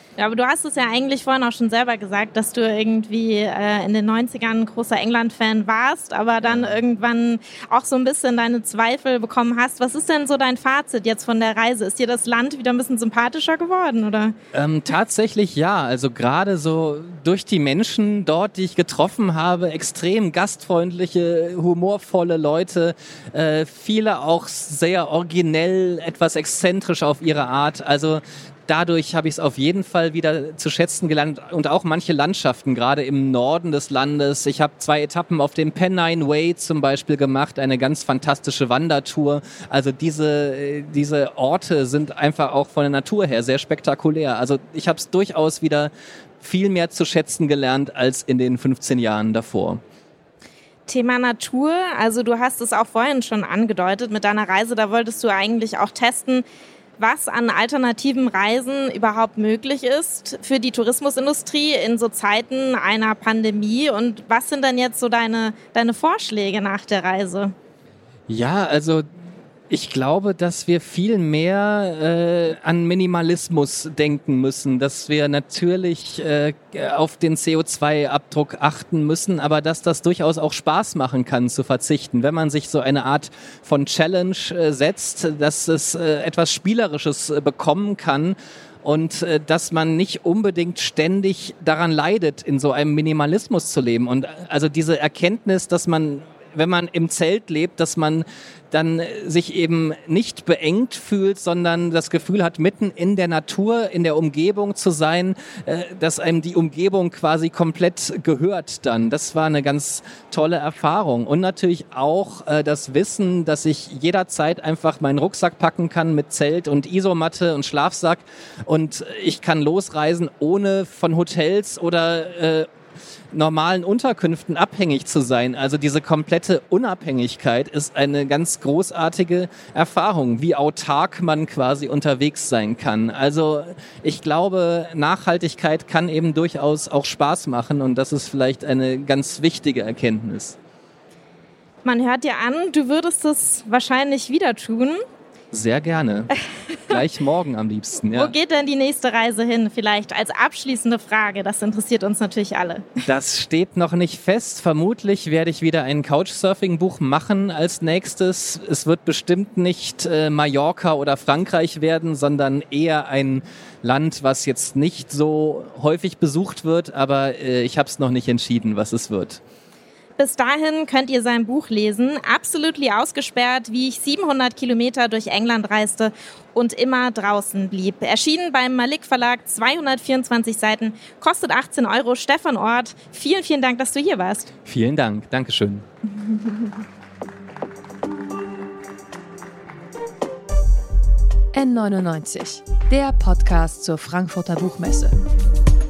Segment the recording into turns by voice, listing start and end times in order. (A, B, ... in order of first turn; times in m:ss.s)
0:00.2-0:14.4 A
0:06.4-0:06.8 B
0:14.5-0:49.8 B
0:50.9-0:56.5 A
0:57.0-1:07.5 A
1:08.3-1:09.1 B
1:09.7-2:02.7 B
2:03.3-2:20.6 B
2:21.8-2:25.0 A
2:25.5-2:26.3 B
2:26.9-2:28.3 B
2:28.1-2:33.0 A
2:33.0-2:49.4 B
2:50.2-3:04.5 A
3:04.6-3:05.8 B
3:11.5-3:15.2 C